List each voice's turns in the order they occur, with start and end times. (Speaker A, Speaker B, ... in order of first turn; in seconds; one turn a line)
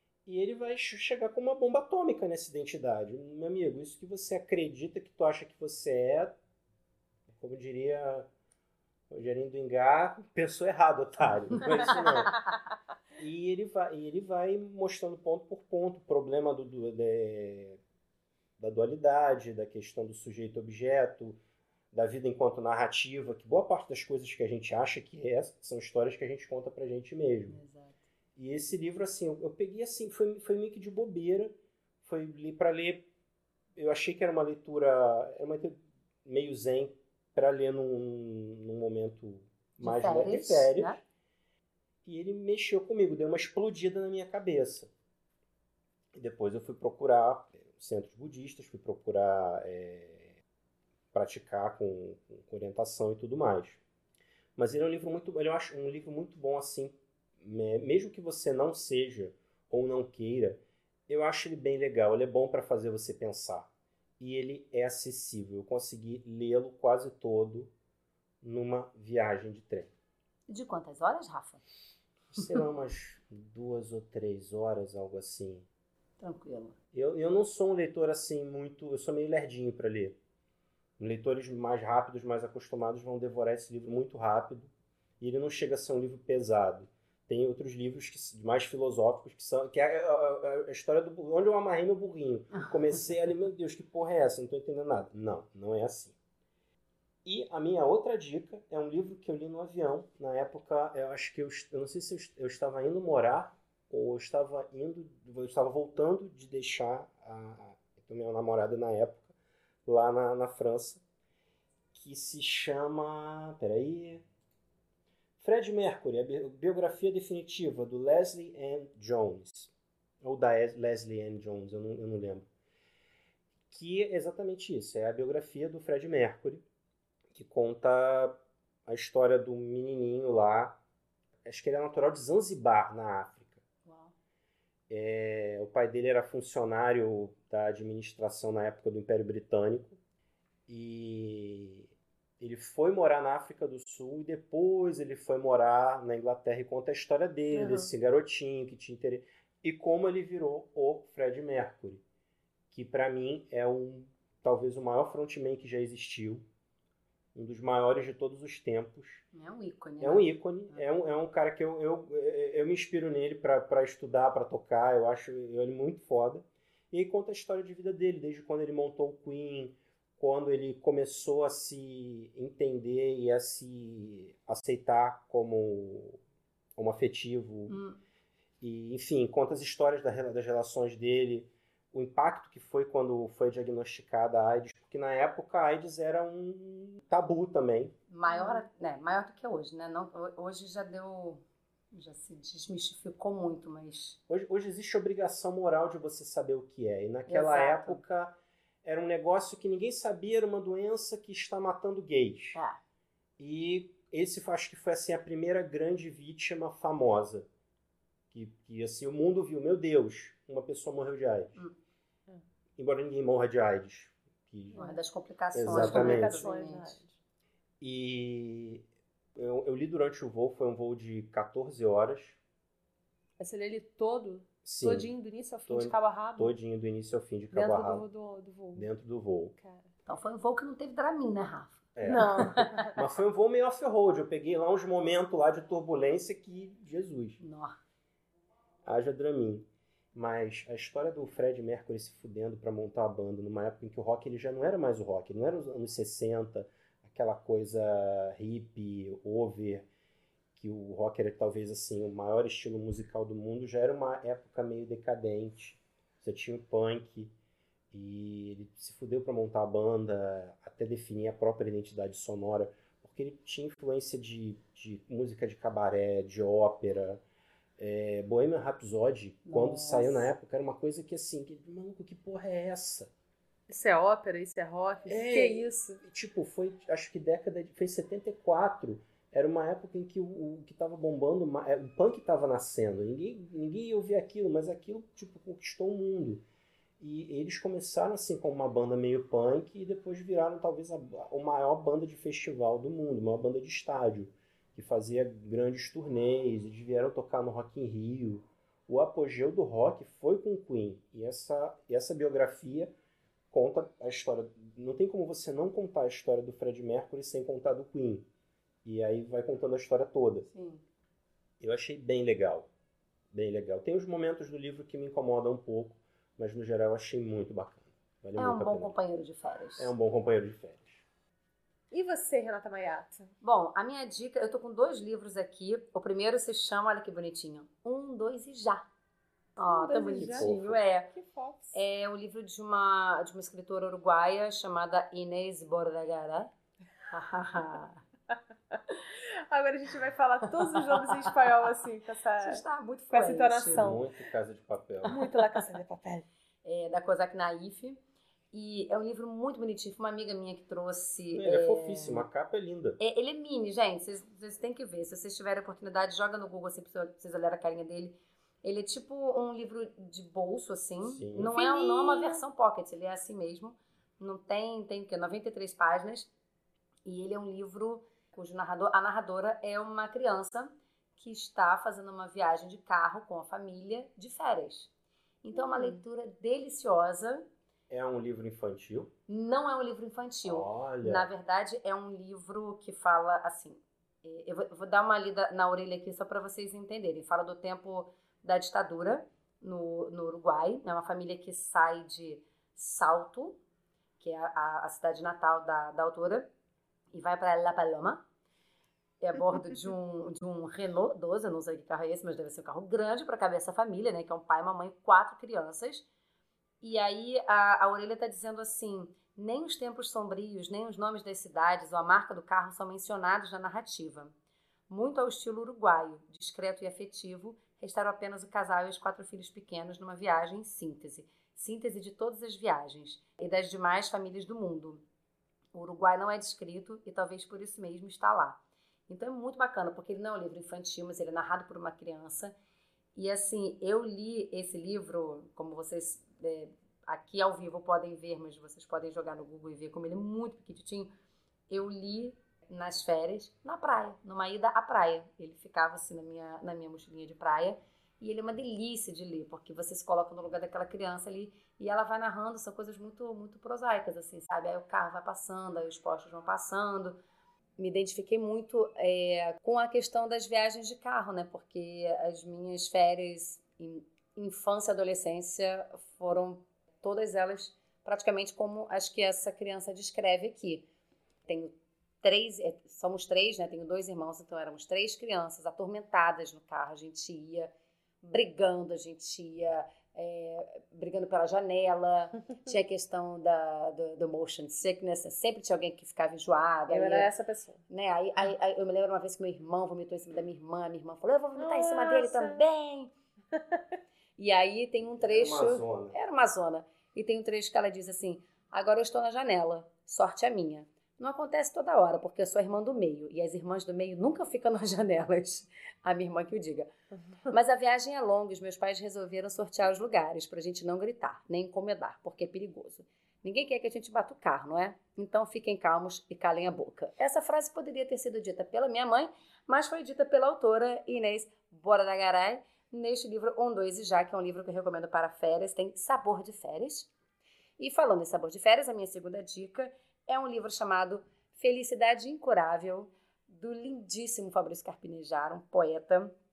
Speaker A: 0.3-6.3
Speaker A: 7.3-8.3
Speaker A: 9.1-12.4
Speaker A: 13.2-17.8
Speaker A: 18.6-21.4
Speaker A: 21.9-27.6
Speaker B: 27.5-28.0
Speaker A: 28.4-33.1
Speaker A: 33.8-41.0
Speaker B: 39.8-41.0
Speaker A: 42.0-44.9
Speaker A: 46.1-50.4
Speaker A: 51.1-53.8
Speaker A: 54.6-67.7
Speaker A: 68.4-69.9
Speaker B: 70.5-71.6
Speaker A: 72.3-75.7
Speaker B: 76.2-76.8
Speaker A: 76.9-80.2
Speaker A: 81.0-96.2
Speaker A: 97.2-109.3
Speaker A: 109.8-111.0
Speaker A: 111.9-114.2
Speaker A: 115.4-122.5
Speaker A: 123.7-126.6
Speaker A: 127.3-130.8
Speaker A: 131.4-133.6
Speaker B: 133.8-134.1
Speaker A: 134.9-140.0
Speaker A: 140.7-152.0
Speaker C: 147.5-147.9
Speaker A: 152.7-156.4
Speaker A: 157.3-159.2
Speaker B: 159.3-160.8
Speaker A: 160.0-176.2
Speaker A: 176.8-177.8
Speaker B: 177.7-178.0
Speaker A: 178.6-187.9
Speaker B: 188.1-191.4
Speaker C: 188.3-188.7
Speaker B: 191.9-194.2
Speaker A: 194.3-202.6
Speaker B: 197.3-198.0
Speaker A: 203.4-207.5
Speaker A: 208.3-211.6
Speaker A: 212.8-214.9
Speaker B: 214.7-217.0
Speaker A: 215.5-216.4
Speaker C: 215.7-217.2
Speaker A: 217.8-218.8
Speaker A: 219.4-222.4
Speaker C: 223.4-226.5
Speaker A: 224.7-225.1
Speaker A: 225.7-228.1
Speaker C: 227.5-228.9
Speaker A: 228.8-229.5
Speaker C: 229.6-229.9
Speaker B: 230.1-232.9
Speaker A: 232.0-237.4
Speaker C: 232.1-232.9
Speaker B: 237.4-237.8
Speaker A: 238.8-249.9
Speaker A: 250.6-257.3
Speaker A: 257.9-267.2
Speaker A: 267.8-273.1
Speaker B: 269.5-270.3
Speaker C: 273.7-276.0
Speaker A: 275.1-286.5
Speaker A: 287.0-302.9
Speaker A: 303.5-308.3
Speaker A: 308.8-310.5
Speaker B: 310.5-310.8
Speaker A: 311.6-312.7
Speaker A: 313.3-318.9
Speaker B: 318.4-319.9
Speaker A: 319.8-321.0
Speaker C: 321.9-323.3
Speaker B: 323.4-328.9
Speaker C: 329.6-330.5
Speaker B: 329.6-331.1
Speaker A: 330.3-330.8
Speaker C: 331.1-331.8
Speaker B: 331.7-336.5
Speaker B: 337.1-338.0
Speaker C: 338.7-344.1
Speaker B: 340.6-341.5
Speaker B: 342.4-344.0
Speaker A: 343.7-345.2
Speaker C: 345.1-346.3
Speaker B: 346.6-348.0
Speaker B: 348.5-352.3
Speaker A: 351.4-353.0
Speaker B: 353.0-366.3
Speaker A: 361.0-361.5
Speaker C: 361.4-362.4
Speaker B: 367.1-374.9
Speaker B: 375.4-377.5
Speaker C: 375.6-376.0
Speaker A: 377.9-379.1
Speaker B: 379.3-393.6
Speaker A: 380.4-381.3
Speaker B: 394.2-396.5
Speaker B: 397.1-398.2
Speaker B: 399.2-406.1
Speaker B: 406.8-414.3
Speaker B: 414.9-425.0
Speaker B: 425.7-432.6
Speaker B: 433.1-441.1
Speaker B: 441.7-457.2
Speaker B: 457.8-470.9
Speaker B: 471.5-477.7
Speaker B: 478.2-487.3
Speaker C: 486.9-487.8
Speaker B: 487.9-493.1
Speaker C: 491.6-492.6
Speaker B: 494.4-506.9
Speaker A: 495.2-496.2
Speaker B: 507.5-527.1
Speaker B: 527.8-536.4